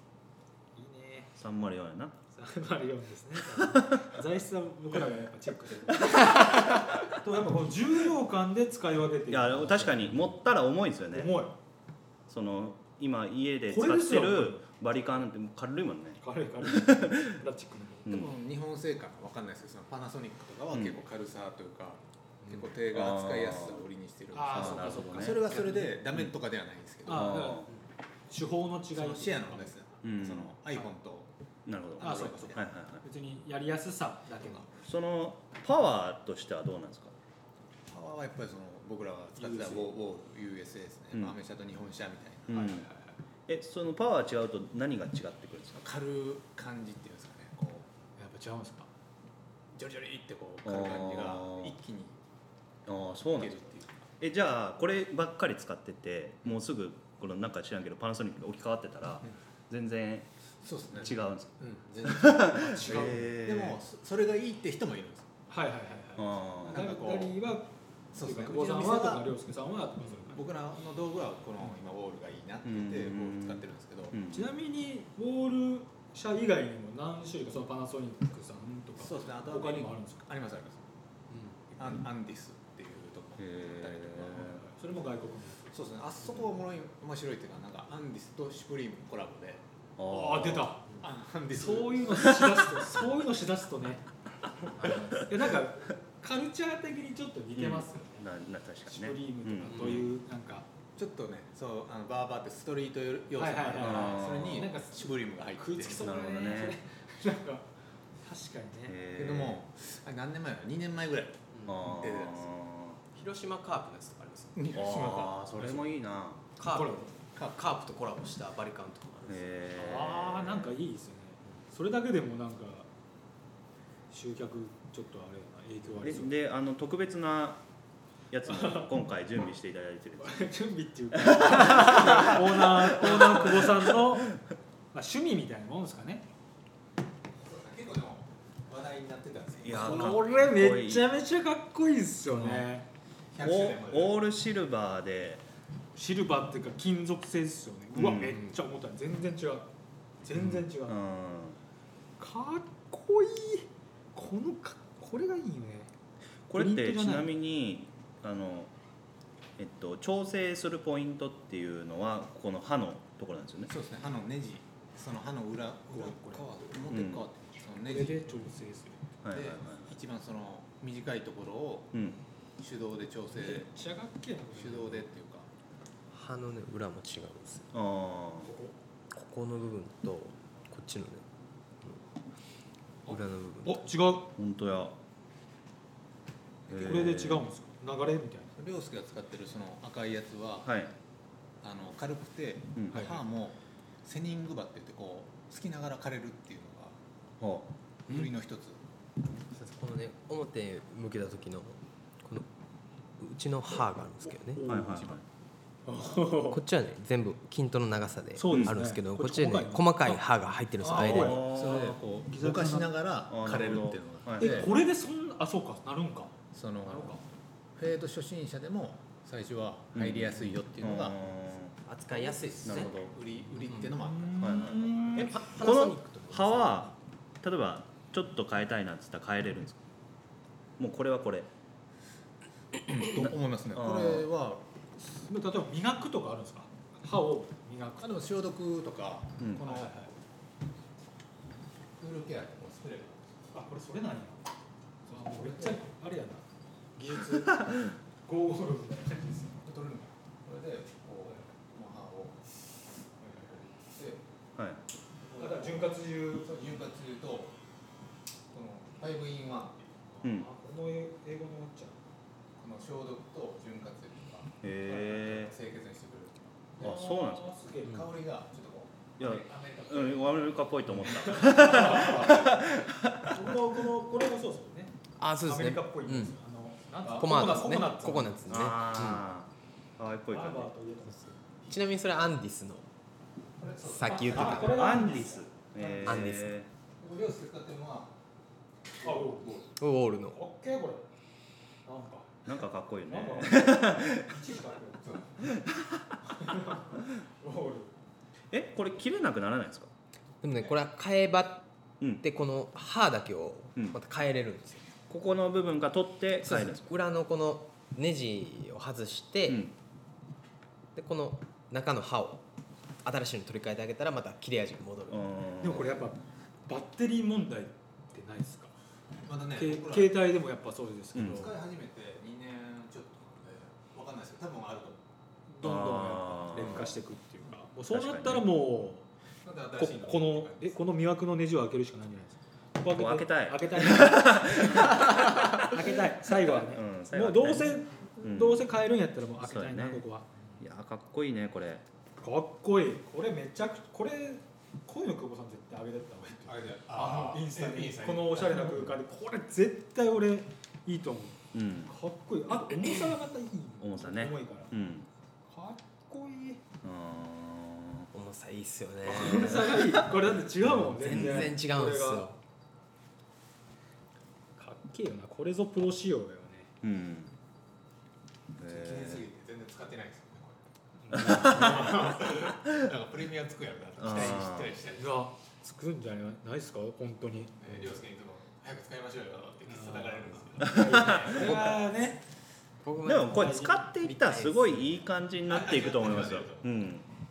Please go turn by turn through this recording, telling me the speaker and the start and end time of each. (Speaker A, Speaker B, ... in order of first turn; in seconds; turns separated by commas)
Speaker A: 0.7-1.3, Speaker B: 1.4-2.2, Speaker A: 2.3-10.3, Speaker B: 3.5-4.1, Speaker B: 6.0-7.0, Speaker B: 9.3-11.3, Speaker A: 11.1-11.5, Speaker B: 12.3-17.4, Speaker A: 13.7-14.6, Speaker A: 16.2-18.1, Speaker B: 18.1-18.3, Speaker C: 18.1-27.4, Speaker B: 20.7-21.0, Speaker B: 22.9-23.8, Speaker A: 24.3-26.0, Speaker B: 24.4-25.5, Speaker A: 27.0-27.7, Speaker B: 27.1-27.7, Speaker A: 28.3-29.7, Speaker C: 28.9-31.3, Speaker B: 30.0-30.5, Speaker B: 31.6-33.0, Speaker C: 32.0-32.6, Speaker A: 32.0-34.7, Speaker B: 34.8-37.1, Speaker C: 37.9-42.8, Speaker A: 39.4-39.9, Speaker B: 42.5-42.9, Speaker A: 42.5-43.1, Speaker B: 43.5-45.9, Speaker C: 45.8-47.9, Speaker A: 48.2-48.9, Speaker C: 49.7-52.2, Speaker B: 50.6-51.8, Speaker B: 52.9-53.6, Speaker C: 53.3-54.0, Speaker B: 54.2-60.3, Speaker C: 60.6-65.3, Speaker B: 61.0-63.8, Speaker A: 62.5-63.3, Speaker A: 65.5-70.5, Speaker B: 66.2-66.9, Speaker C: 66.6-67.3, Speaker C: 68.1-69.3, Speaker C: 70.1-74.2, Speaker B: 72.6-74.5, Speaker A: 74.3-80.2, Speaker C: 79.0-80.8, Speaker C: 81.7-84.6, Speaker B: 83.4-84.6, Speaker A: 84.4-85.7, Speaker C: 85.7-89.6, Speaker B: 90.0-90.8, Speaker A: 90.1-90.8, Speaker C: 91.0-92.5, Speaker A: 91.5-94.0, Speaker A: 94.8-98.3, Speaker B: 97.5-100.1, Speaker A: 98.9-100.7, Speaker D: 99.7-100.0, Speaker C: 100.9-106.1, Speaker A: 103.3-107.7, Speaker B: 103.8-104.7, Speaker B: 105.9-106.8, Speaker A: 108.2-109.0, Speaker B: 108.9-109.6, Speaker C: 109.1-112.5, Speaker D: 111.5-111.8, Speaker B: 111.7-113.0, Speaker D: 113.1-114.6, Speaker C: 114.5-115.9, Speaker B: 114.7-116.4, Speaker D: 116.6-119.4, Speaker A: 116.7-117.1, Speaker C: 117.3-117.6, Speaker B: 119.3-120.7, Speaker A: 119.7-122.9, Speaker A: 124.1-126.3, Speaker B: 126.0-127.6, Speaker B: 128.3-130.5, Speaker A: 128.4-128.9, Speaker A: 130.2-134.3, Speaker B: 131.1-134.0, Speaker A: 134.9-136.2, Speaker C: 137.4-140.2, Speaker B: 139.6-141.1, Speaker A: 139.7-142.9, Speaker C: 143.3-144.2, Speaker B: 143.4-145.4, Speaker A: 145.9-149.7, Speaker B: 147.9-148.4, Speaker A: 150.2-151.0, Speaker B: 150.3-151.6, Speaker A: 152.2-155.9, Speaker B: 156.5-158.7, Speaker A: 156.5-157.3, Speaker B: 159.6-163.7, Speaker C: 163.7-168.4, Speaker A: 165.9-166.5, Speaker B: 166.9-167.2, Speaker A: 167.8-169.0, Speaker B: 169.2-169.9, Speaker C: 169.3-171.9, Speaker B: 171.9-172.2, Speaker C: 172.6-173.7, Speaker A: 173.3-175.1, Speaker C: 174.5-175.5, Speaker D: 176.1-177.7, Speaker B: 177.7-178.5, Speaker A: 178.4-178.7, Speaker D: 179.1-181.2, Speaker D: 183.1-183.9, Speaker A: 183.1-184.3, Speaker B: 184.3-184.9, Speaker C: 186.7-187.3, Speaker B: 186.7-187.4, Speaker A: 186.8-188.6, Speaker C: 188.6-190.7, Speaker B: 190.6-190.9, Speaker C: 191.6-197.0, Speaker B: 192.8-193.1, Speaker A: 192.9-193.2, Speaker B: 197.4-197.7, Speaker C: 198.1-198.8, Speaker D: 199.5-202.5, Speaker D: 203.2-204.6, Speaker A: 204.2-205.2, Speaker B: 204.7-205.2, Speaker A: 205.8-206.6, Speaker D: 206.5-211.4, Speaker A: 208.3-210.2, Speaker B: 208.5-208.8, Speaker A: 210.8-212.9, Speaker B: 211.0-212.0, Speaker C: 211.2-214.7, Speaker B: 213.3-214.7, Speaker A: 214.4-217.2, Speaker C: 216.5-217.2, Speaker C: 217.8-221.3, Speaker B: 219.9-221.7, Speaker D: 221.8-222.9, Speaker C: 222.1-225.0, Speaker B: 222.6-223.1, Speaker D: 223.6-223.9, Speaker A: 223.8-225.4, Speaker B: 224.4-229.8, Speaker D: 225.1-226.9, Speaker B: 230.8-231.5, Speaker C: 232.8-234.6, Speaker B: 233.0-234.3, Speaker A: 235.3-238.3, Speaker C: 238.0-240.0, Speaker B: 239.4-239.6, Speaker A: 239.6-240.1, Speaker C: 242.0-243.2, Speaker A: 243.5-244.4, Speaker C: 245.1-245.8, Speaker A: 245.1-246.4, Speaker A: 246.9-249.6, Speaker C: 249.6-252.6, Speaker C: 253.2-254.2, Speaker B: 254.6-254.8, Speaker C: 255.2-257.5, Speaker A: 255.4-256.5, Speaker C: 258.5-260.0, Speaker A: 260.1-262.0, Speaker B: 260.2-260.5, Speaker C: 262.6-266.7, Speaker B: 264.6-265.5, Speaker A: 266.8-268.1, Speaker B: 266.8-267.5, Speaker C: 267.8-272.8, Speaker B: 269.2-273.5, Speaker A: 271.5-272.3, Speaker A: 273.3-278.6, Speaker D: 275.2-276.3, Speaker C: 277.0-277.8, Speaker D: 277.1-279.2, Speaker B: 278.5-280.7, Speaker A: 280.3-281.3, Speaker D: 281.2-282.9, Speaker C: 283.6-285.2, Speaker D: 283.8-284.8, Speaker A: 284.1-286.3, Speaker B: 284.5-286.7, Speaker D: 286.0-286.5, Speaker C: 287.0-288.1, Speaker C: 289.0-289.6, Speaker A: 289.0-289.7, Speaker D: 289.8-290.4, Speaker A: 290.3-291.0, Speaker A: 291.9-292.4, Speaker B: 292.4-294.3, Speaker A: 293.1-295.2, Speaker C: 295.0-295.4, Speaker B: 295.5-296.1, Speaker A: 296.3-297.9, Speaker B: 298.5-299.9, Speaker D: 300.4-301.6, Speaker D: 302.2-304.9, Speaker B: 305.1-306.9, Speaker D: 306.4-309.6, Speaker B: 309.5-309.7, Speaker D: 310.9-312.4, Speaker D: 313.0-315.3, Speaker B: 315.1-316.0, Speaker A: 315.6-318.7, Speaker C: 319.2-320.3, Speaker A: 319.6-321.5, Speaker B: 321.1-321.5, Speaker C: 321.2-325.0, Speaker A: 325.5-329.1, Speaker B: 325.6-326.9, Speaker B: 327.9-328.5, Speaker C: 329.4-330.8, Speaker A: 329.8-340.6, Speaker B: 332.9-338.7, Speaker B: 339.4-340.0, Speaker B: 340.6-341.8, Speaker A: 342.2-354.7, Speaker C: 346.4-348.9, Speaker B: 351.5-351.9, Speaker B: 353.8-355.1, Speaker A: 355.5-356.6, Speaker B: 356.8-358.1, Speaker D: 358.1-360.1, Speaker A: 359.0-362.3, Speaker B: 360.6-361.5, Speaker D: 360.9-362.4, Speaker A: 364.6-366.7, Speaker B: 366.8-367.3, Speaker B: 368.6-369.2, Speaker C: 368.6-370.6, Speaker A: 371.0-371.9, Speaker C: 371.1-375.2, Speaker B: 371.1-371.9, Speaker B: 374.0-374.7, Speaker A: 374.9-377.9, Speaker C: 377.6-381.8, Speaker A: 379.7-382.2, Speaker B: 380.7-381.8, Speaker D: 382.8-385.1, Speaker B: 383.0-387.1, Speaker A: 383.3-383.7, Speaker C: 385.5-386.7